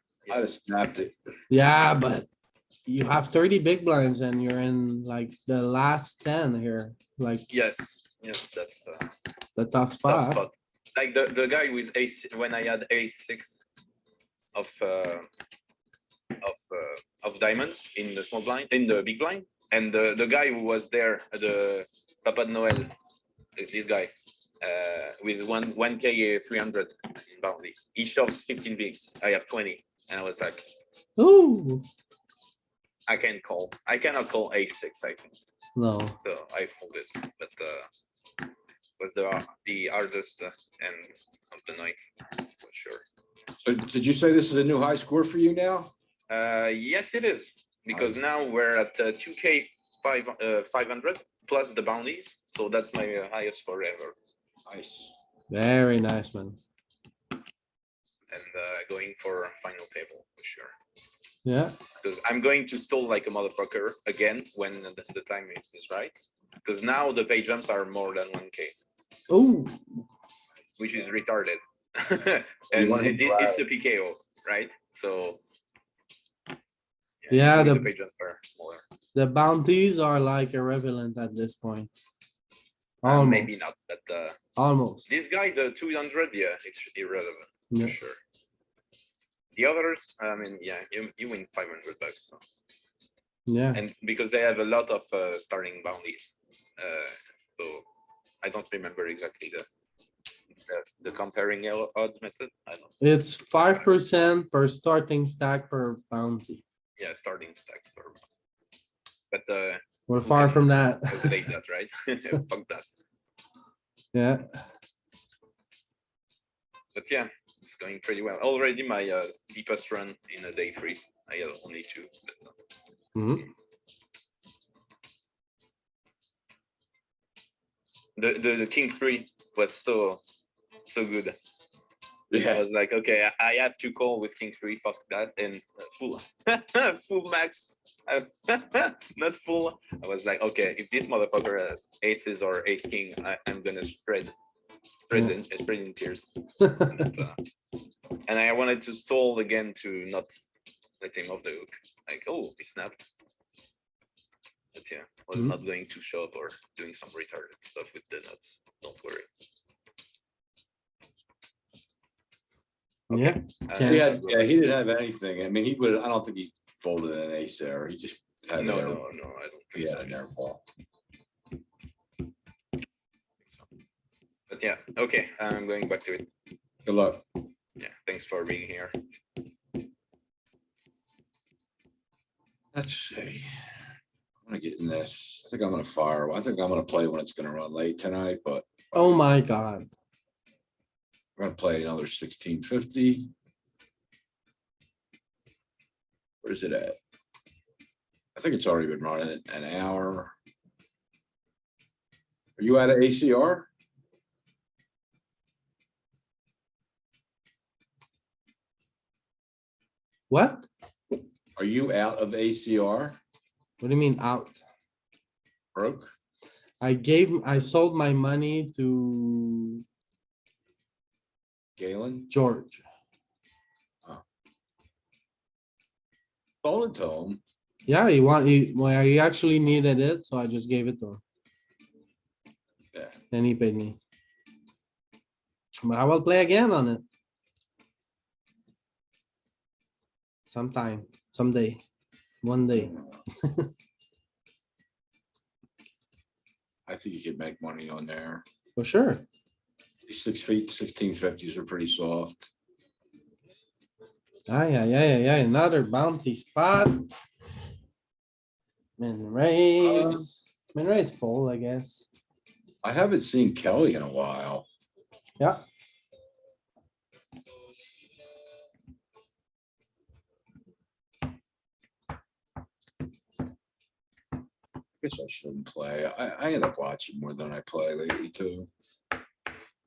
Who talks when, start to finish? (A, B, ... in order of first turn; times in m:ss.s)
0:00.3-0:01.1 A
0:01.5-0:02.3 B
0:02.9-0:07.5 B
0:07.5-0:09.1 C
0:09.6-0:10.4 B
0:10.0-0:13.6 C
0:14.6-0:15.3 C
0:16.4-0:22.9 C
0:23.6-0:30.7 C
0:31.2-0:31.8 B
0:33.1-0:35.4 C
0:35.8-0:36.2 B
0:36.2-0:37.9 C
0:39.0-0:43.0 C
0:43.6-0:45.9 A
0:46.3-0:54.2 C
0:47.9-0:48.2 A
0:54.7-0:55.1 A
0:55.5-0:56.6 B
0:58.3-1:00.7 C
1:01.4-1:01.8 B
1:02.0-1:06.1 C
1:06.6-1:08.8 C
1:09.3-1:10.0 B
1:10.8-1:15.4 C
1:12.7-1:13.6 A
1:17.2-1:18.8 C
1:17.3-1:17.9 B
1:19.1-1:21.9 B
1:23.0-1:23.5 B
1:23.0-1:24.4 C
1:24.6-1:25.1 B
1:25.1-1:28.2 C
1:29.6-1:32.4 C
1:33.5-1:33.8 B
1:33.7-1:37.8 C
1:38.4-1:39.7 C
1:40.7-1:43.0 C
1:43.0-1:46.6 B
1:47.0-1:48.2 C
1:49.3-1:52.9 C
1:50.1-1:51.4 B
1:54.1-1:54.6 B
1:57.0-2:02.6 C
2:03.2-2:03.5 B
2:08.2-2:10.2 C
2:10.9-2:11.4 C
2:12.3-2:12.6 A
2:12.5-2:24.3 C
2:25.1-2:27.4 C
2:26.6-2:27.0 B
2:28.3-2:30.4 C
2:31.0-2:33.0 C
2:34.8-2:39.3 C
2:43.1-2:44.2 B
2:43.1-2:44.6 C
2:43.8-2:49.0 A
2:48.6-2:50.2 C
2:49.7-2:50.6 A
2:54.5-2:56.3 C
2:56.9-2:57.3 A
2:57.8-2:59.0 C
3:02.7-3:03.5 A
3:04.5-3:08.7 A
3:08.9-3:09.9 B
3:11.4-3:13.3 A
3:16.4-3:17.0 A
3:18.4-3:20.3 A
3:22.6-3:23.7 A
3:30.3-3:30.7 B
3:31.6-3:33.2 A
3:33.8-3:34.6 B
3:35.8-3:36.1 A
3:36.8-3:39.8 B
3:41.8-3:42.3 A
3:42.3-3:42.8 B
3:46.6-3:47.4 A
3:47.9-3:51.2 B
3:53.3-3:54.0 B
3:55.8-3:57.1 B
4:00.5-4:01.8 B
4:02.4-4:03.7 B
4:02.8-4:03.2 A
4:06.9-4:08.4 A
4:08.8-4:09.2 B
4:10.1-4:12.5 A
4:14.5-4:17.1 B
4:19.0-4:22.1 B
4:19.8-4:20.3 A
4:22.8-4:24.7 A
4:35.0-4:38.7 A